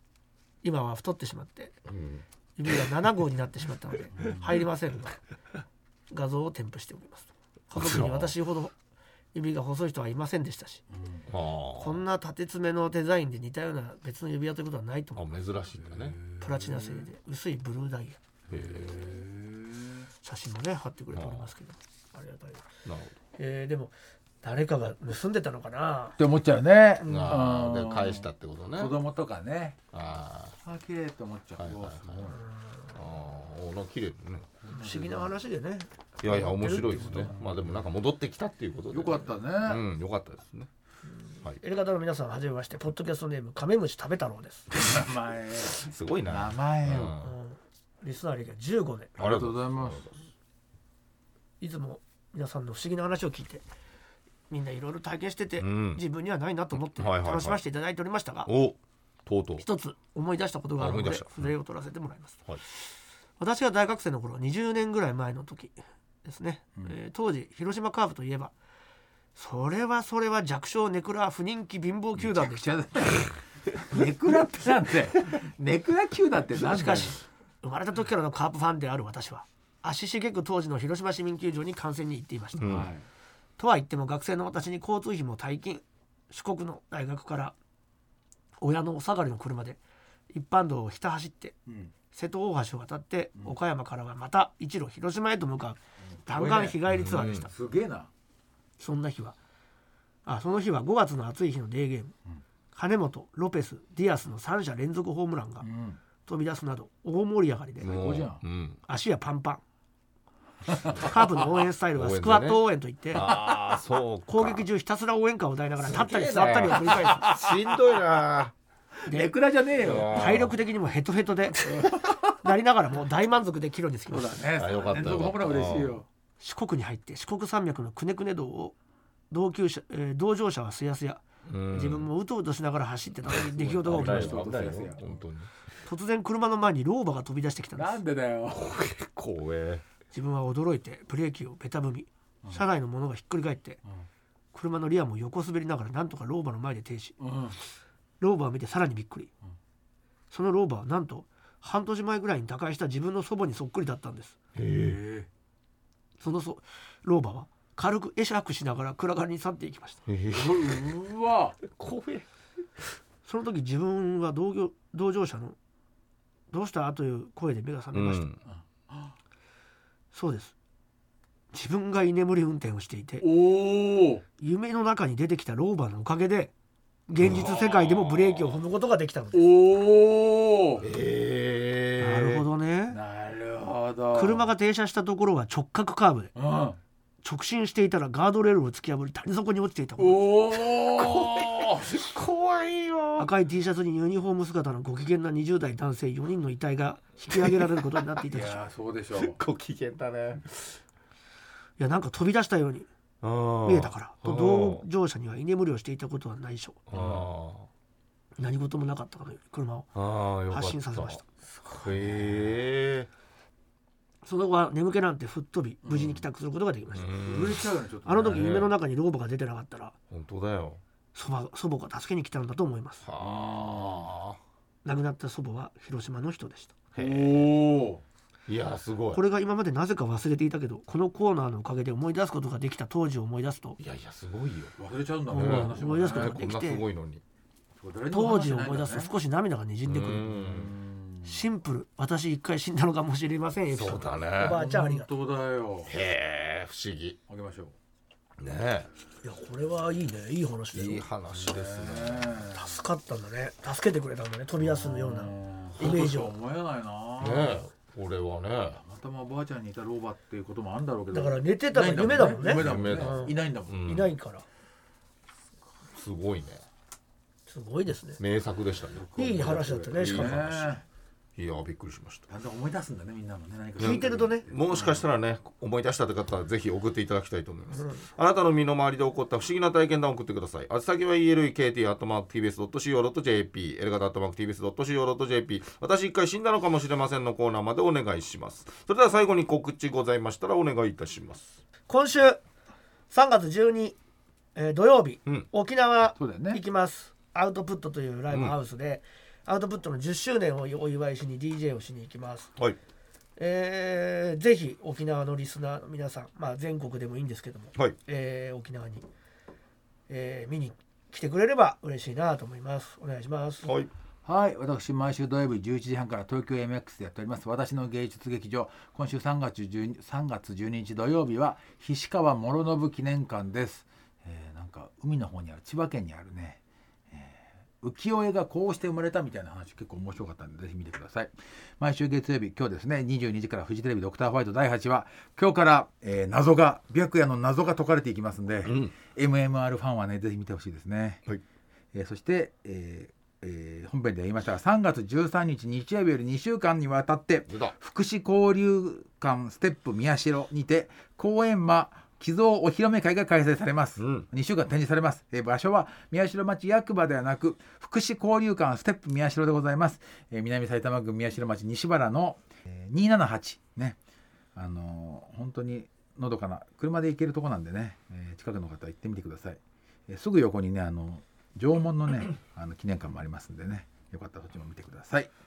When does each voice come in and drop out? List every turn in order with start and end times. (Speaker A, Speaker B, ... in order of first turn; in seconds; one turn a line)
Speaker A: 0.6-1.7
Speaker B: 1.9-2.2
Speaker A: 2.6-5.2
Speaker C: 4.1-4.6
Speaker A: 6.1-8.7
Speaker B: 7.7-8.3
Speaker A: 9.3-10.8
Speaker C: 10.9-11.3
Speaker B: 11.3-12.0
Speaker A: 11.8-15.2
Speaker B: 15.2-16.2
Speaker C: 15.8-17.1
Speaker A: 16.4-18.2
Speaker B: 18.5-19.1
Speaker C: 18.5-20.1
Speaker A: 20.2-22.6
Speaker B: 21.1-21.5
Speaker B: 22.8-23.1
Speaker A: 23.4-26.2
Speaker C: 26.2-29.8
Speaker A: 27.0-27.4
Speaker B: 27.1-29.0
Speaker B: 29.9-30.6
Speaker C: 30.6-32.4
Speaker B: 31.6-32.2
Speaker A: 32.2-32.9
Speaker B: 32.9-34.5
Speaker C: 34.6-35.3
Speaker A: 34.7-37.3
Speaker B: 36.2-40.7
Speaker C: 36.6-37.8
Speaker C: 38.9-39.8
Speaker A: 41.0-44.7
Speaker C: 44.7-47.1
Speaker B: 45.7-47.3
Speaker A: 47.2-49.1
Speaker B: 49.2-50.1
Speaker C: 49.2-50.1
Speaker A: 51.6-53.6
Speaker A: 54.5-58.5
Speaker B: 55.6-56.0
Speaker B: 56.8-57.6
Speaker B: 58.5-59.6
Speaker A: 59.6-62.8
Speaker B: 60.8-61.5
Speaker A: 63.4-68.5
Speaker A: 69.3-72.6
Speaker C: 72.2-77.2
Speaker A: 76.5-82.7
Speaker B: 82.6-82.9
Speaker C: 82.6-83.0
Speaker A: 83.6-87.5
Speaker A: 88.6-89.8
Speaker A: 90.3-91.5
Speaker C: 91.7-91.9
Speaker A: 92.1-97.5
Speaker C: 96.0-98.1
Speaker B: 96.9-97.4
Speaker A: 98.8-99.4
Speaker A: 100.2-102.1
Speaker A: 102.7-105.7
Speaker C: 105.6-106.0
Speaker A: 106.2-107.9
Speaker B: 107.8-108.8
Speaker C: 107.8-108.4
Speaker A: 108.9-109.6
Speaker C: 110.7-111.1
Speaker A: 110.9-113.2
Speaker B: 111.9-114.7
Speaker A: 114.3-117.3
Speaker C: 115.8-117.8
Speaker B: 116.4-118.5
Speaker C: 119.0-120.5
Speaker A: 119.1-119.3
Speaker B: 119.8-120.5
Speaker A: 120.0-124.4
Speaker C: 121.8-122.2
Speaker C: 124.1-126.1
Speaker B: 124.5-126.0
Speaker A: 126.4-128.8
Speaker A: 129.3-134.4
Speaker B: 131.4-132.1
Speaker C: 133.2-135.2
Speaker B: 133.8-135.5
Speaker A: 135.8-138.0
Speaker C: 137.7-138.7
Speaker B: 138.5-139.8
Speaker A: 140.1-143.8
Speaker A: 144.5-147.2
Speaker C: 147.2-147.6
Speaker A: 148.2-149.3
Speaker A: 150.3-154.3
Speaker B: 154.6-155.0
Speaker C: 154.8-155.3
Speaker A: 156.2-160.0
Speaker B: 160.1-160.8
Speaker C: 160.3-161.6
Speaker B: 161.7-162.2
Speaker A: 163.2-165.6
Speaker A: 166.5-168.2
Speaker B: 167.9-168.4
Speaker C: 168.5-169.1
Speaker A: 170.1-170.5
Speaker A: 171.5-173.3
Speaker C: 173.2-174.2
Speaker A: 174.4-176.5
Speaker A: 177.1-179.4
Speaker B: 177.2-178.6
Speaker C: 177.2-177.5
Speaker C: 179.3-180.8
Speaker B: 180.8-182.4
Speaker A: 182.0-183.0
Speaker C: 182.9-184.5
Speaker A: 184.1-186.3
Speaker C: 186.3-186.8
Speaker A: 187.2-190.3
Speaker C: 190.0-192.0
Speaker B: 190.7-193.3
Speaker A: 193.2-198.6
Speaker C: 198.3-199.4
Speaker B: 199.2-200.8
Speaker A: 201.8-202.9
Speaker B: 203.2-204.8
Speaker A: 203.6-206.8
Speaker B: 206.9-207.7
Speaker C: 206.9-207.3
Speaker A: 208.4-209.9
Speaker B: 209.9-213.1
Speaker A: 210.5-211.3
Speaker C: 211.8-212.6
Speaker A: 214.2-217.2
Speaker C: 215.8-216.2
Speaker B: 216.9-217.7
Speaker C: 217.2-218.6
Speaker A: 218.1-219.9
Speaker B: 218.2-218.7
Speaker B: 220.1-220.8
Speaker A: 221.1-223.0
Speaker B: 223.0-224.4
Speaker C: 223.2-224.1
Speaker A: 224.8-226.7
Speaker B: 226.9-227.5
Speaker C: 227.0-228.0
Speaker B: 228.5-229.2
Speaker A: 229.1-233.8
Speaker B: 233.8-234.7
Speaker C: 234.8-236.4
Speaker B: 235.3-237.2
Speaker A: 235.3-236.8
Speaker C: 237.8-239.1
Speaker A: 238.1-240.3
Speaker B: 239.8-240.7
Speaker C: 240.2-241.5
Speaker A: 241.2-245.1
Speaker B: 243.7-244.6
Speaker C: 244.4-245.9
Speaker B: 245.8-247.2
Speaker C: 247.3-247.7
Speaker B: 248.4-248.9
Speaker A: 249.2-251.1
Speaker B: 250.7-252.4
Speaker C: 251.3-252.7
Speaker A: 252.5-256.3
Speaker C: 254.6-257.6
Speaker B: 257.2-258.8
Speaker C: 258.8-263.8
Speaker A: 261.1-264.4
Speaker B: 262.2-264.1
Speaker B: 265.9-266.6
Speaker A: 267.5-268.2
Speaker B: 268.2-270.7
Speaker C: 268.9-270.8
Speaker A: 269.1-270.6
Speaker B: 271.4-272.2
Speaker C: 272.3-275.0
Speaker B: 273.8-291.6
Speaker A: 273.8-274.4
Speaker A: 277.7-278.1
Speaker A: 291.9-292.4
Speaker A: 293.1-294.0
Speaker A: 294.5-302.5
Speaker C: 296.1-296.6
Speaker A: 303.4-309.1
Speaker A: 310.1-313.7
Speaker B: 313.6-313.9
Speaker C: 314.2-341.2
Speaker B: 338.6-338.9
Speaker C: 341.9-364.0
Speaker B: 347.5-347.7
Speaker B: 354.0-354.3
Speaker C: 364.5-375.3